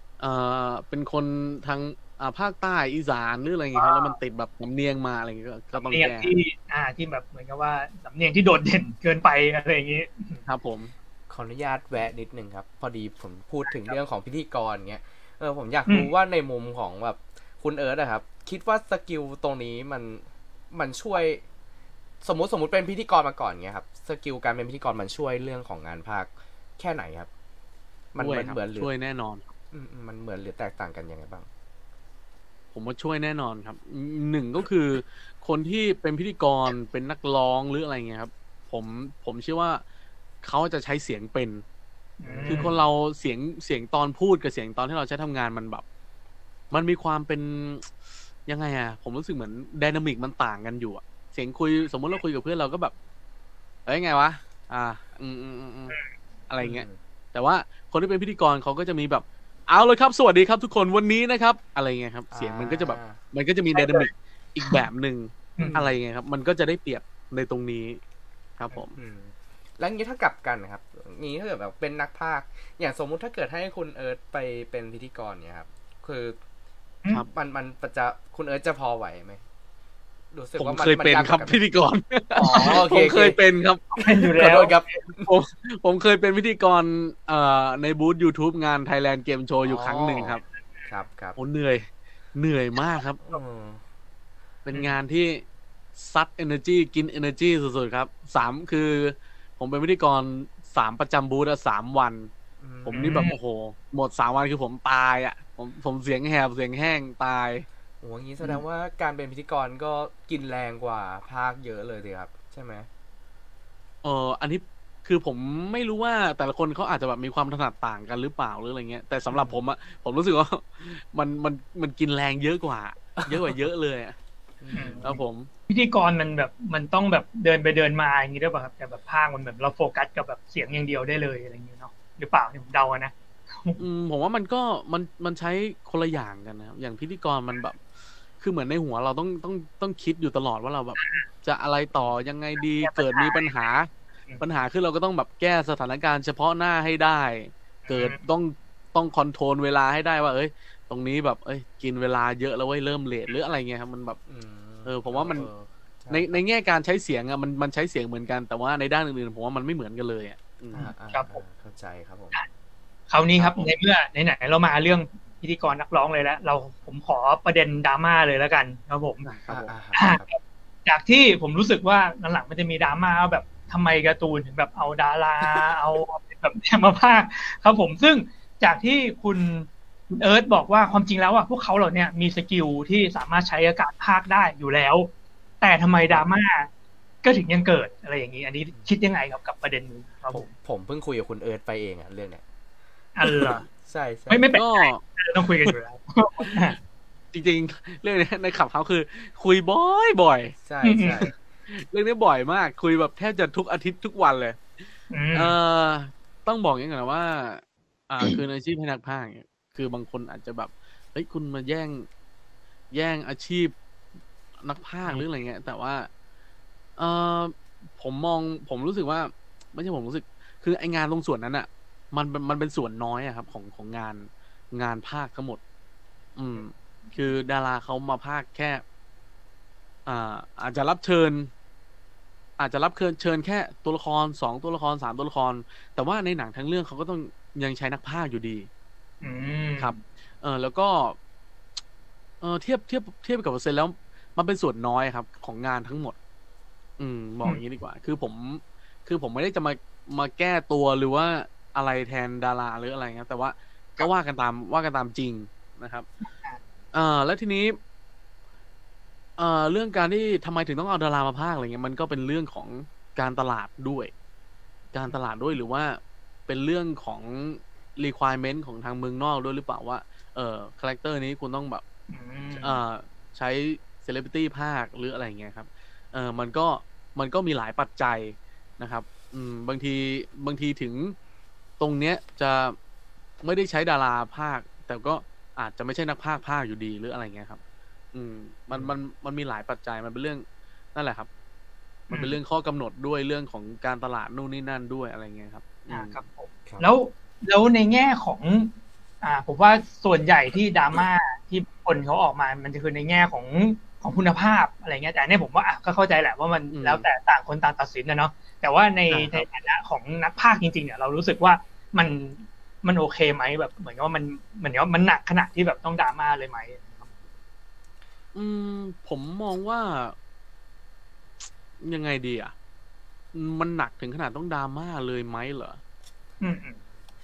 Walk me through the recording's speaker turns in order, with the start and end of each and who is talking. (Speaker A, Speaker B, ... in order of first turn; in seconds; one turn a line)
Speaker A: 0.2-6.3
Speaker B: 3.8-4.2
Speaker B: 5.7-10.4
Speaker A: 10.5-10.9
Speaker C: 11.3-21.4
Speaker B: 13.7-14.0
Speaker C: 22.2-27.3
Speaker C: 28.1-28.9
Speaker A: 28.2-29.4
Speaker C: 29.7-31.5
Speaker A: 32.7-39.8
Speaker A: 40.4-41.6
Speaker B: 42.2-42.7
Speaker C: 42.3-42.8
Speaker A: 42.5-45.8
Speaker A: 46.7-47.9
Speaker A: 48.5-52.9
Speaker A: 53.9-56.0
Speaker A: 56.5-68.0
Speaker C: 56.6-57.0
Speaker C: 62.3-63.2
Speaker B: 63.7-64.1
Speaker B: 65.6-65.8
Speaker C: 65.6-65.9
Speaker A: 68.6-69.0
Speaker C: 68.7-76.4
Speaker C: 77.3-79.4
Speaker C: 80.3-81.6
Speaker A: 80.6-84.7
Speaker C: 82.3-83.4
Speaker B: 82.5-82.8
Speaker B: 84.0-85.0
Speaker C: 84.4-85.3
Speaker A: 85.2-90.4
Speaker C: 89.6-91.4
Speaker A: 91.4-93.2
Speaker C: 93.2-93.8
Speaker A: 94.7-95.4
Speaker A: 96.0-102.3
Speaker C: 102.6-103.1
Speaker A: 102.8-107.7
Speaker B: 102.9-103.4
Speaker C: 108.0-112.9
Speaker A: 114.0-124.2
Speaker C: 119.3-119.6
Speaker C: 123.2-123.5
Speaker C: 124.6-125.2
Speaker B: 124.7-133.8
Speaker A: 125.0-125.5
Speaker A: 133.8-137.8
Speaker A: 138.4-143.9
Speaker B: 141.0-141.3
Speaker B: 142.8-143.7
Speaker A: 144.4-154.2
Speaker B: 147.9-148.2
Speaker C: 154.3-156.4
Speaker A: 154.8-155.5
Speaker A: 156.1-160.9
Speaker C: 160.7-162.4
Speaker B: 161.1-161.4
Speaker B: 163.1-169.3
Speaker C: 163.4-163.7
Speaker A: 169.3-169.7
Speaker C: 169.5-170.3
Speaker B: 169.9-185.1
Speaker B: 185.6-186.7
Speaker B: 187.2-190.5
Speaker C: 190.3-192.4
Speaker B: 193.2-193.7
Speaker C: 193.8-194.5
Speaker B: 194.3-196.8
Speaker A: 194.5-195.0
Speaker A: 197.3-200.6
Speaker C: 200.7-201.3
Speaker B: 200.8-201.3
Speaker A: 201.7-204.6
Speaker B: 205.1-205.6
Speaker A: 205.3-212.1
Speaker A: 212.9-213.7
Speaker A: 214.6-216.1
Speaker A: 217.0-225.6
Speaker A: 226.4-228.8
Speaker A: 230.1-231.5
Speaker A: 232.6-238.7
Speaker B: 239.2-240.0
Speaker A: 239.8-241.2
Speaker A: 242.4-246.2
Speaker A: 247.0-256.1
Speaker B: 256.2-256.6
Speaker A: 256.9-257.8
Speaker A: 259.4-264.1
Speaker A: 264.9-271.8
Speaker B: 272.1-272.8
Speaker A: 272.6-281.2
Speaker A: 281.8-282.8
Speaker A: 283.4-287.6
Speaker A: 288.1-290.4
Speaker A: 290.9-291.3
Speaker B: 292.1-292.4
Speaker A: 292.1-296.2
Speaker B: 295.9-317.1
Speaker A: 306.7-307.1
Speaker A: 309.1-309.4
Speaker A: 318.4-320.1
Speaker A: 321.8-322.5
Speaker A: 323.3-325.8
Speaker B: 326.4-326.8